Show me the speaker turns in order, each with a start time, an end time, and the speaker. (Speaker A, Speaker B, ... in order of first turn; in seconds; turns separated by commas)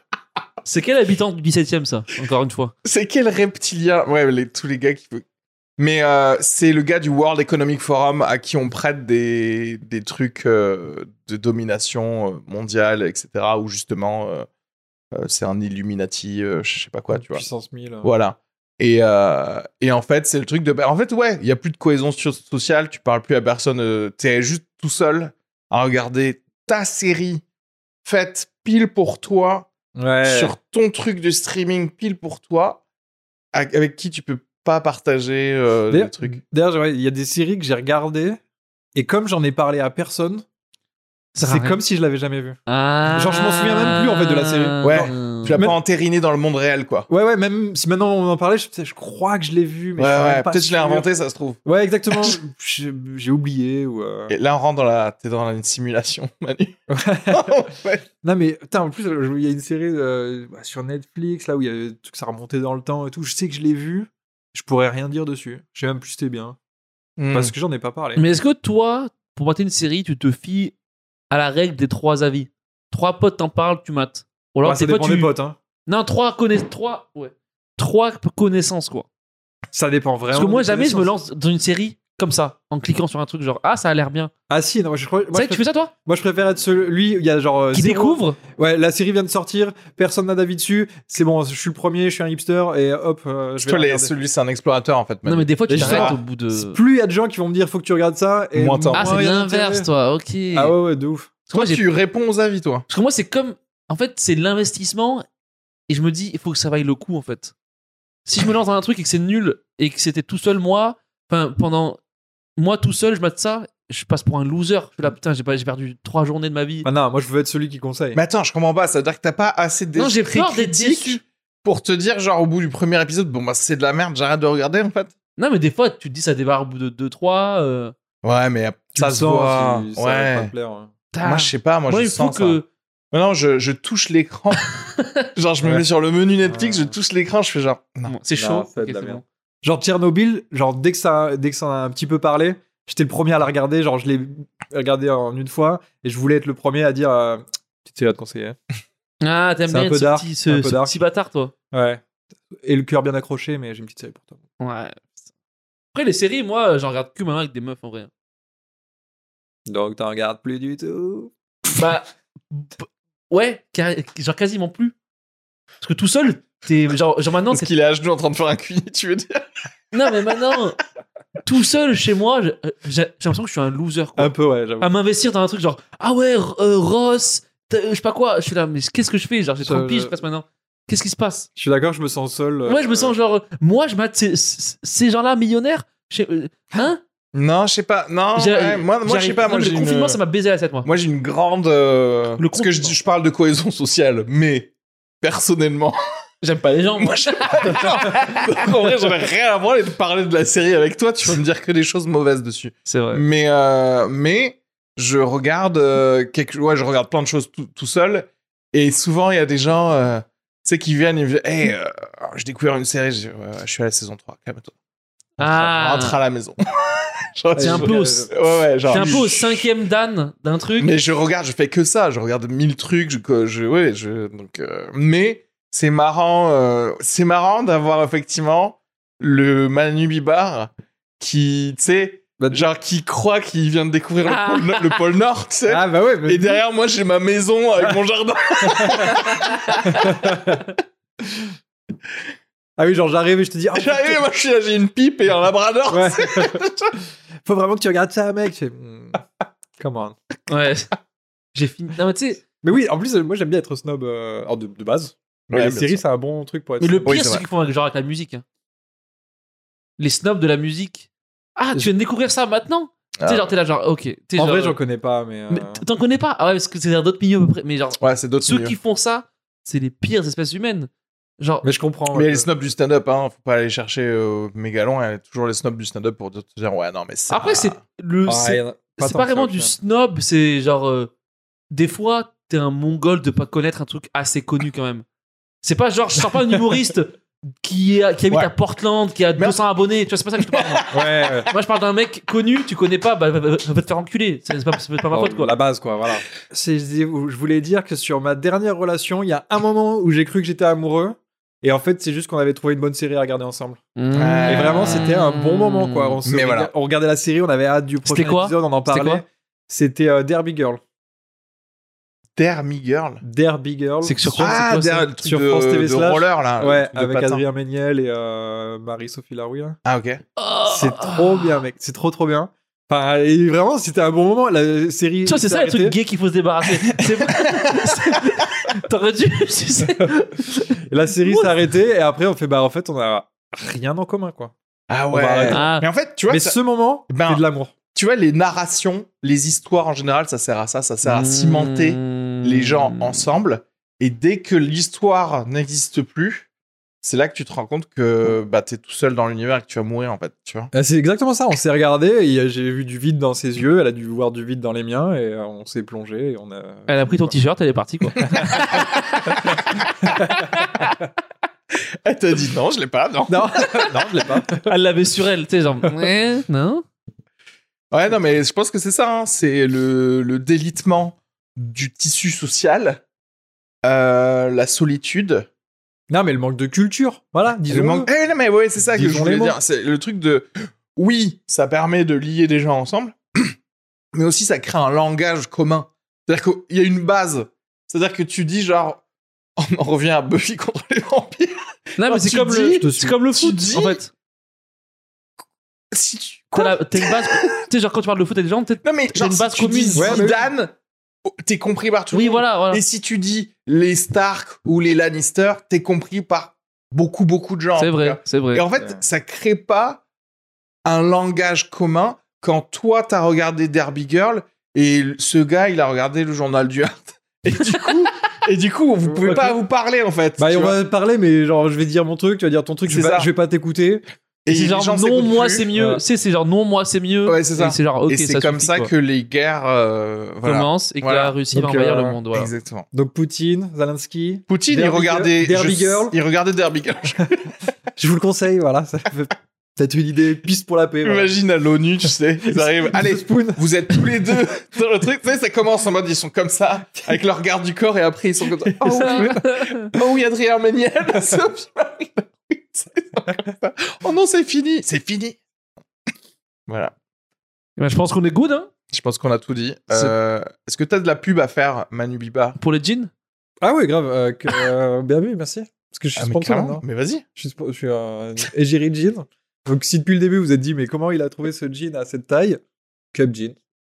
Speaker A: 0.6-2.7, Speaker B: 2.8-5.2, Speaker B: 5.8-14.5, Speaker B: 15.1-17.4, Speaker C: 17.1-18.1, Speaker B: 18.0-27.4, Speaker B: 28.0-29.7, Speaker C: 29.9-30.5, Speaker B: 30.2-32.8, Speaker B: 33.5-36.4, Speaker C: 35.9-38.4, Speaker C: 38.9-40.4, Speaker A: 41.4-41.8, Speaker C: 41.4-42.6, Speaker A: 42.7-45.6, Speaker C: 43.1-45.7, Speaker B: 44.8-47.1, Speaker C: 47.1-51.1, Speaker B: 50.0-51.6, Speaker C: 51.6-54.3, Speaker B: 54.3-58.0, Speaker C: 56.9-57.6, Speaker C: 58.2-66.6, Speaker B: 67.2-67.5, Speaker C: 67.3-68.2, Speaker A: 68.2-70.7, Speaker A: 71.3-75.3, Speaker C: 74.6-75.6, Speaker A: 75.9-79.1, Speaker C: 79.7-81.1, Speaker A: 80.3-84.3, Speaker C: 84.5-94.1, Speaker A: 85.3-85.9, Speaker A: 87.7-88.4, Speaker B: 93.6-96.2, Speaker A: 95.2-96.8, Speaker C: 95.7-99.9, Speaker B: 98.5-99.2, Speaker A: 98.9-100.7, Speaker C: 100.5-101.3, Speaker A: 101.5-101.8, Speaker B: 101.5-102.8, Speaker A: 102.9-105.2, Speaker A: 105.9-107.5, Speaker A: 108.2-112.0, Speaker A: 112.6-116.9, Speaker C: 116.8-118.2, Speaker B: 118.1-125.1, Speaker A: 120.0-121.2, Speaker A: 125.4-127.9, Speaker B: 128.2-130.5, Speaker C: 128.9-130.9, Speaker A: 131.1-132.7, Speaker B: 131.2-132.6, Speaker B: 133.1-134.6, Speaker A: 134.6-135.2, Speaker B: 135.3-138.2, Speaker C: 136.4-136.9, Speaker A: 138.1-139.2, Speaker C: 138.3-148.6, Speaker A: 149.2-151.5, Speaker C: 149.7-151.0, Speaker C: 151.7-152.0, Speaker C: 152.5-154.4, Speaker A: 154.6-155.0, Speaker A: 155.9-158.1, Speaker C: 159.7-161.3, Speaker A: 161.7-164.9, Speaker A: 165.8-167.7, Speaker B: 167.5-169.4, Speaker A: 169.9-170.8, Speaker A: 171.4-181.5, Speaker C: 174.2-174.9, Speaker C: 179.6-180.2, Speaker C: 181.6-183.1, Speaker A: 182.7-187.0, Speaker B: 187.3-190.2, Speaker A: 188.3-190.9, Speaker B: 190.8-194.7, Speaker A: 192.4-192.9, Speaker B: 195.2-196.0, Speaker A: 196.4-199.2, Speaker B: 196.9-214.7, Speaker A: 202.8-203.2, Speaker A: 215.4-216.2, Speaker B: 215.4-219.7, Speaker C: 217.6-219.3, Speaker A: 217.6-218.3, Speaker A: 218.9-220.9, Speaker B: 220.8-240.2, Speaker C: 232.4-232.6, Speaker A: 234.2-235.0, Speaker C: 235.7-236.6, Speaker C: 238.6-240.7, Speaker A: 239.4-239.7, Speaker C: 242.8-244.2, Speaker B: 243.7-246.9, Speaker C: 245.9-246.6, Speaker C: 247.4-250.2, Speaker A: 250.5-250.9, Speaker A: 251.5-252.4, Speaker C: 252.6-257.1, Speaker B: 255.5-256.0, Speaker A: 256.8-258.4, Speaker B: 257.0-257.4, Speaker A: 260.0-264.8, Speaker B: 263.2-263.5, Speaker C: 264.4-265.8, Speaker A: 265.5-271.7, Speaker B: 268.0-268.7, Speaker C: 271.6-272.5, Speaker B: 272.1-277.8, Speaker A: 277.3-281.1, Speaker C: 278.2-279.7, Speaker A: 281.7-285.0, Speaker A: 285.6-290.9, Speaker B: 290.4-290.8, Speaker C: 290.9-291.5, Speaker A: 291.5-295.6, Speaker C: 295.1-303.8, Speaker A: 304.0-306.2, Speaker B: 304.1-305.1, Speaker C: 304.5-310.8, Speaker B: 306.2-306.7, Speaker A: 308.0-309.2, Speaker B: 312.4-313.2, Speaker C: 313.2-314.6, Speaker A: 314.0-315.1, Speaker B: 314.4-317.4, Speaker C: 315.2-319.8, Speaker B: 319.8-320.2, Speaker A: 320.4-321.6, Speaker C: 320.6-325.9, Speaker A: 325.2-330.7, Speaker B: 326.9-328.4, Speaker C: 329.8-330.1, Speaker C: 330.9-334.5, Speaker A: 331.2-331.5, Speaker B: 334.9-336.6, Speaker C: 335.1-335.6, Speaker A: 335.5-335.8, Speaker C: 336.3-337.7, Speaker B: 337.1-337.4, Speaker B: 337.9-346.5, Speaker A: 341.0-343.2, Speaker B: 347.0-350.7, Speaker C: 350.7-357.3, Speaker A: 356.9-359.6, Speaker C: 358.2-360.4, Speaker B: 358.4-358.8, Speaker A: 360.2-360.9, Speaker B: 362.0-363.4, Speaker C: 363.3-364.7, Speaker A: 364.5-366.8, Speaker B: 367.9-373.0, Speaker B: 373.8-375.5, Speaker C: 376.1-378.1, Speaker B: 377.7-383.5, Speaker C: 378.8-379.6, Speaker B: 384.1-389.0, Speaker B: 389.6-394.0, Speaker A: 392.0-394.1, Speaker C: 392.6-393.1, Speaker B: 395.9-397.5, Speaker A: 396.5-400.3, Speaker B: 398.8-400.7, Speaker C: 399.9-400.4, Speaker B: 401.3-410.0, Speaker A: 402.1-402.8, Speaker A: 407.8-408.6, Speaker B: 410.8-420.8, Speaker C: 419.0-419.6, Speaker C: 420.4-424.0, Speaker B: 422.8-423.3, Speaker B: 424.4-425.7, Speaker A: 424.5-428.9, Speaker C: 425.7-426.0, Speaker B: 427.2-431.3, Speaker A: 430.4-432.5, Speaker C: 431.5-432.2, Speaker B: 432.3-432.9, Speaker C: 432.9-436.1, Speaker B: 434.5-437.5, Speaker C: 437.9-441.3, Speaker B: 441.0-455.4, Speaker C: 442.4-444.1, Speaker C: 448.6-449.4, Speaker A: 448.8-449.9, Speaker B: 456.7-456.9, Speaker A: 457.8-458.7, Speaker B: 458.9-462.6, Speaker A: 462.6-463.1, Speaker C: 463.6-466.8, Speaker B: 466.2-467.2, Speaker C: 467.3-472.6, Speaker C: 473.1-473.6